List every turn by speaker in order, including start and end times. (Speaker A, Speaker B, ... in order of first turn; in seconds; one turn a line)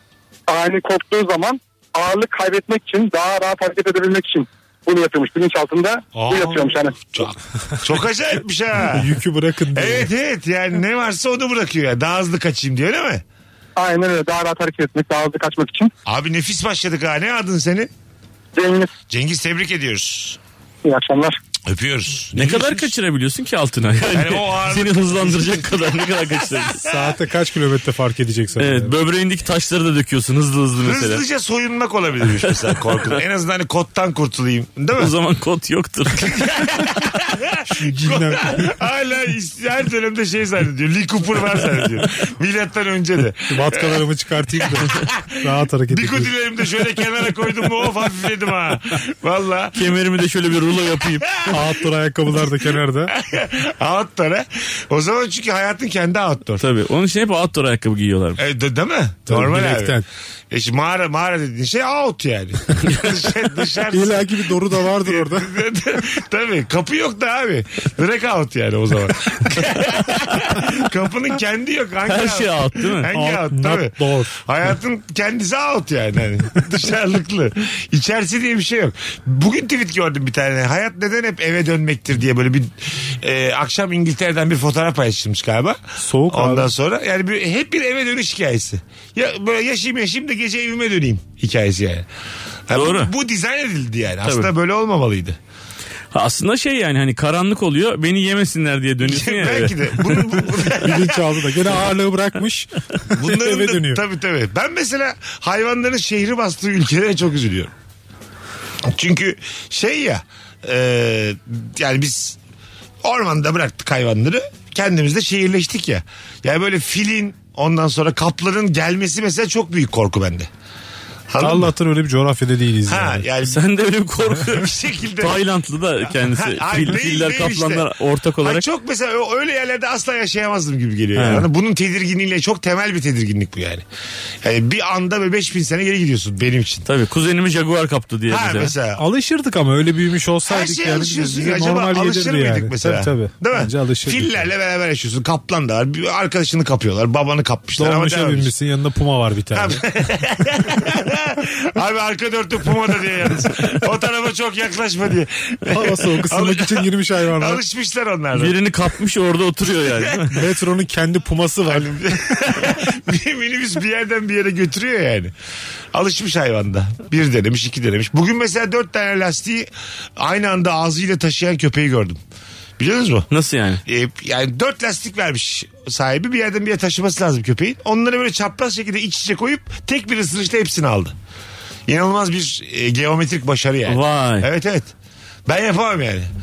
Speaker A: 0.5-7.0
Speaker B: 6.1-9.1
Speaker C: 8.8-10.1
Speaker B: 9.8-13.2
Speaker A: 13.8-15.9
Speaker B: 16.1-17.9
Speaker A: 18.6-18.9
Speaker B: 19.1-20.4
Speaker A: 20.9-21.4
Speaker B: 21.6-22.9
Speaker D: 22.4-26.8
Speaker B: 24.1-27.0
Speaker C: 26.8-28.9
Speaker D: 28.6-31.2
Speaker B: 30.8-35.1
Speaker D: 35.0-36.6
Speaker B: 36.2-44.0
Speaker C: 37.8-38.6
Speaker C: 43.5-46.3
Speaker B: 44.6-45.3
Speaker B: 45.9-49.8
Speaker D: 49.8-51.4
Speaker B: 51.1-51.6
Speaker C: 51.5-53.1
Speaker B: 53.1-56.6
Speaker D: 56.6-58.4
Speaker B: 58.4-60.0
Speaker C: 59.3-60.0
Speaker B: 60.5-92.1
Speaker C: 63.9-65.5
Speaker D: 72.1-73.1
Speaker C: 73.1-74.4
Speaker C: 86.0-86.7
Speaker B: 92.7-95.4
Speaker D: 92.7-93.1
Speaker D: 94.2-94.5
Speaker D: 96.1-100.4
Speaker B: 99.0-101.6
Speaker C: 100.8-104.0
Speaker B: 103.2-107.7
Speaker B: 108.8-112.4
Speaker B: 113.0-120.5
Speaker B: 121.3-121.7
Speaker C: 121.4-123.2
Speaker B: 122.9-123.6
Speaker D: 123.4-128.7
Speaker B: 124.5-125.4
Speaker B: 126.2-127.9
Speaker B: 128.4-133.8
Speaker D: 131.2-131.5
Speaker B: 134.4-136.9
Speaker D: 136.9-138.7
Speaker B: 138.3-139.0
Speaker C: 139.0-144.5
Speaker B: 140.5-148.5
Speaker C: 147.8-149.8
Speaker B: 149.5-158.6
Speaker C: 155.7-157.6
Speaker D: 158.3-160.3
Speaker C: 160.3-162.0
Speaker B: 161.7-165.3
Speaker B: 165.9-172.2
Speaker B: 172.8-173.3
Speaker D: 173.3-173.8
Speaker B: 173.9-181.2
Speaker B: 181.9-184.9
Speaker D: 183.9-184.5
Speaker B: 185.5-186.3